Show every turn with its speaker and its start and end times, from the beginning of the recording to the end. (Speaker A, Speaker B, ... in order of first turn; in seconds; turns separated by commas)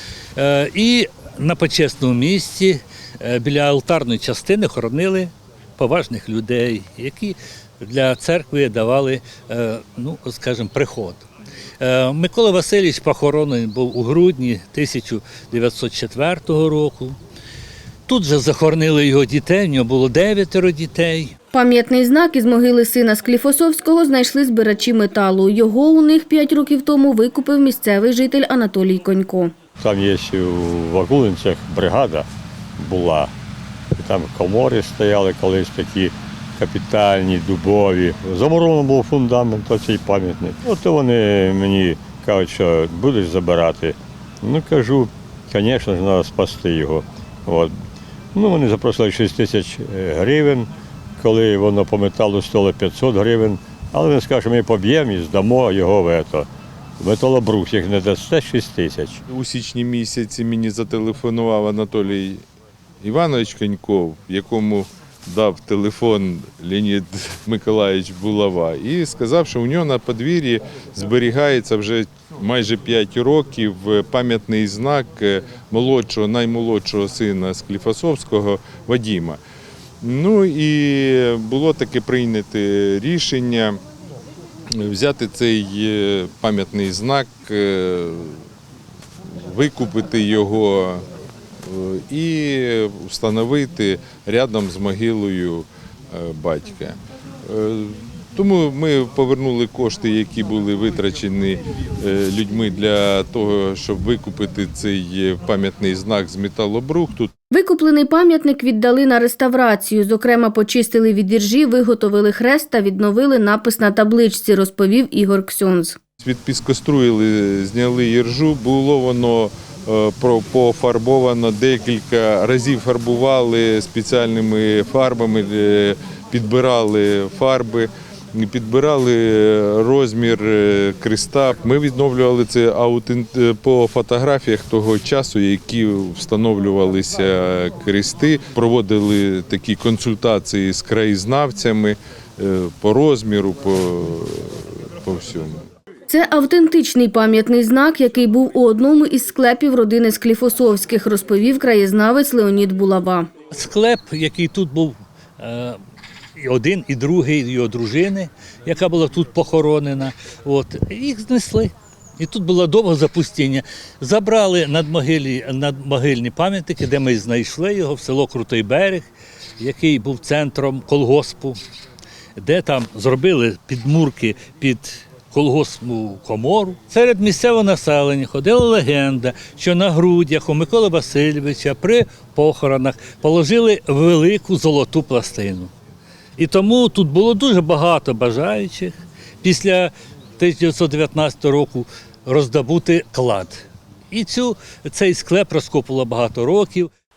Speaker A: 0.3-11.2, Speaker A: 11.8-17.2, Speaker A: 18.1-21.3, Speaker B: 21.5-29.5, Speaker C: 29.8-33.3, Speaker C: 34.0-47.7, Speaker C: 48.3-59.2, Speaker D: 59.3-62.4, Speaker D: 63.0-79.4, Speaker D: 80.0-83.8, Speaker D: 84.7-88.4, Speaker D: 89.3-91.0, Speaker D: 91.7-107.3, Speaker B: 107.5-116.0, Speaker D: 116.2-145.6, Speaker B: 146.1-153.3, Speaker A: 153.5-155.8, Speaker A: 156.4-169.1, Speaker A: 169.6-171.6, Speaker A: 172.4-185.7, Speaker A: 186.4-196.9